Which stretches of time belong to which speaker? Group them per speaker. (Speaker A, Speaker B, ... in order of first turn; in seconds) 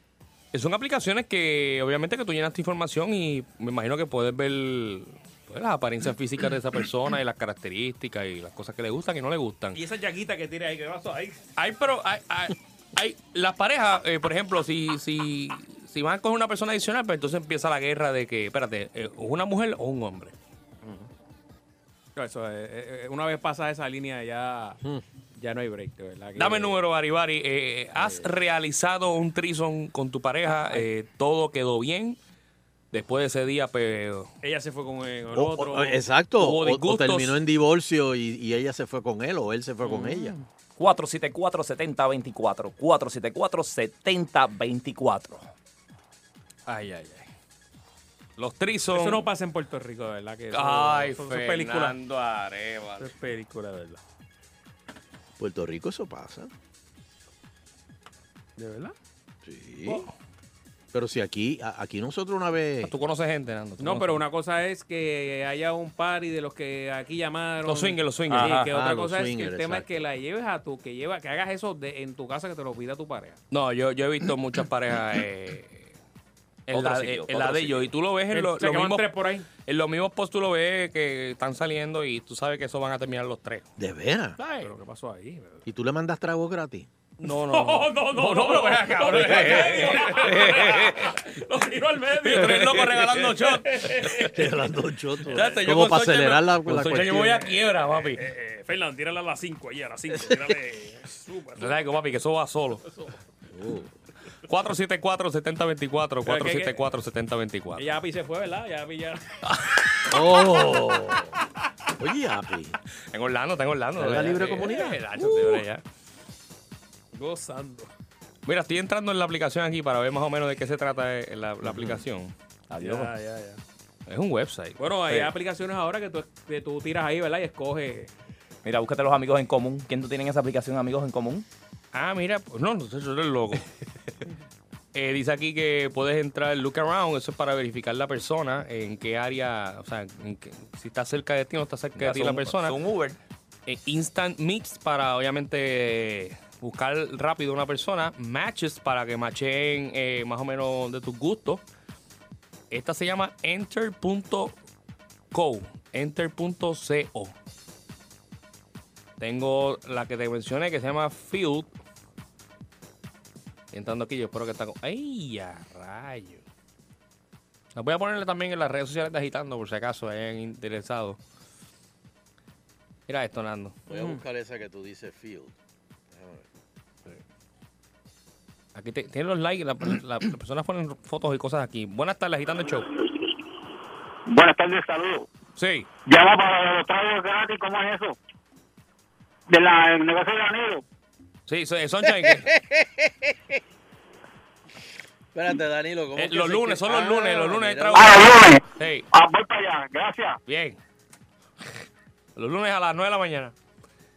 Speaker A: 0.5-9.8, 11.6-20.3, 26.4-32.2, 32.9-34.3, 36.4-37.4, 46.7-47.3, 48.4-49.2, 50.5-53.1, 62.8-64.2, 67.7-68.6, 73.5-75.9, 76.7-83.7, 84.4-84.7, 87.2-90.9, 92.2-94.0, 95.3-98.2, 101.6-102.8, 104.5-107.9, 113.1-115.8, 118.5-122.3, 124.1-124.8, 131.9-133.7, 134.9-142.8, 143.7-151.6, 152.7-154.5, 155.3-157.3, 159.2-161.7, 163.7-166.4, 167.8-171.2, 173.1-173.8, 178.8-182.9, 185.6-185.9, 191.5-192.5, 196.2-199.1, 200.5-200.8, 202.4-203.5
Speaker B: 9.7-11.4, 20.8-21.1, 22.2-24.8, 25.4-26.8, 28.0-28.3, 34.4-36.0, 39.8-40.4, 48.9-52.0, 53.0-54.0, 58.6-59.0, 63.8-73.4, 78.3-79.5, 84.6-85.6, 87.2-94.5, 95.3-95.6, 97.9-101.8, 106.2-106.8, 107.8-109.3, 114.4-114.8, 117.1-117.9, 122.8-123.6, 124.8-128.1, 173.9-174.2
Speaker C: 35.3-40.4, 55.4-56.5, 59.4-60.1, 60.9-62.9, 68.7-70.0, 83.8-84.4, 85.7-86.9, 89.2-89.7, 94.2-97.5, 103.5-103.9, 110.1-111.3, 112.0-112.8, 114.0-115.0, 121.6-122.0, 173.9-175.5, 176.1-176.4, 192.2-193.6, 195.3-198.3
Speaker D: 40.8-45.4, 68.3-68.7, 76.7-77.9, 122.7-123.1, 128.6-131.5, 141.9-143.2
Speaker E: 184.3-185.3, 186.1-188.2, 189.5-190.8, 197.9-200.4